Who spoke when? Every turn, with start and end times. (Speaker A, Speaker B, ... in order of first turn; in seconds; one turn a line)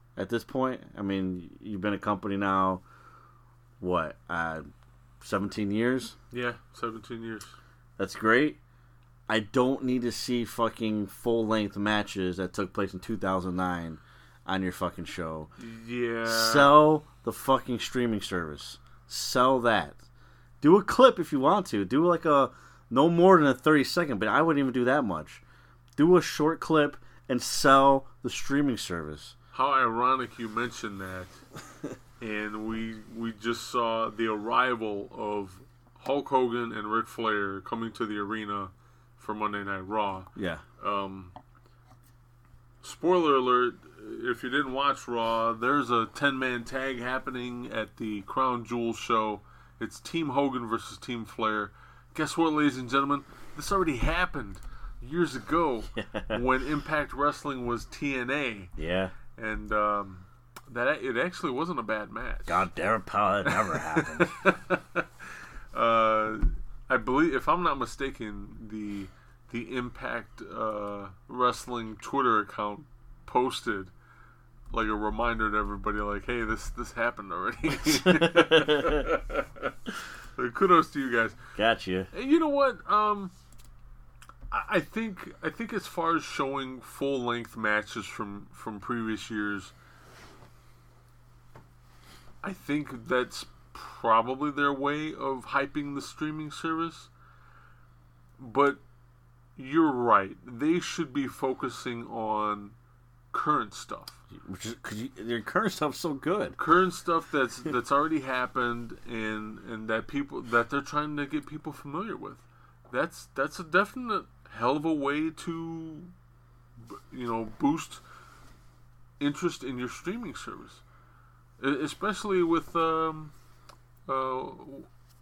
Speaker A: 0.1-2.8
Speaker A: 3.8-4.7
Speaker A: 5.2-6.1
Speaker B: 6.3-7.5
Speaker A: 8.0-8.6
Speaker A: 9.3-15.5
Speaker B: 15.6-16.7
Speaker A: 16.2-20.0
Speaker A: 20.6-25.4
Speaker A: 25.9-29.3
Speaker B: 29.5-31.4
Speaker B: 32.2-41.3
Speaker A: 40.4-40.6
Speaker B: 42.8-58.7
Speaker A: 56.0-56.4
Speaker A: 58.8-59.1
Speaker B: 59.4-62.6
Speaker A: 62.5-64.3
Speaker B: 63.5-65.1
Speaker B: 65.7-73.9
Speaker B: 74.7-79.7
Speaker A: 77.8-79.1
Speaker B: 80.3-81.4
Speaker A: 81.5-82.1
Speaker B: 82.1-83.3
Speaker B: 84.5-89.7
Speaker B: 92.4-97.1
Speaker B: 98.4-98.8
Speaker B: 99.5-102.8
Speaker B: 103.3-104.2
Speaker A: 104.3-106.6
Speaker B: 106.6-116.1
Speaker B: 116.8-118.0
Speaker B: 119.2-120.8
Speaker B: 121.6-123.3
Speaker B: 124.1-124.9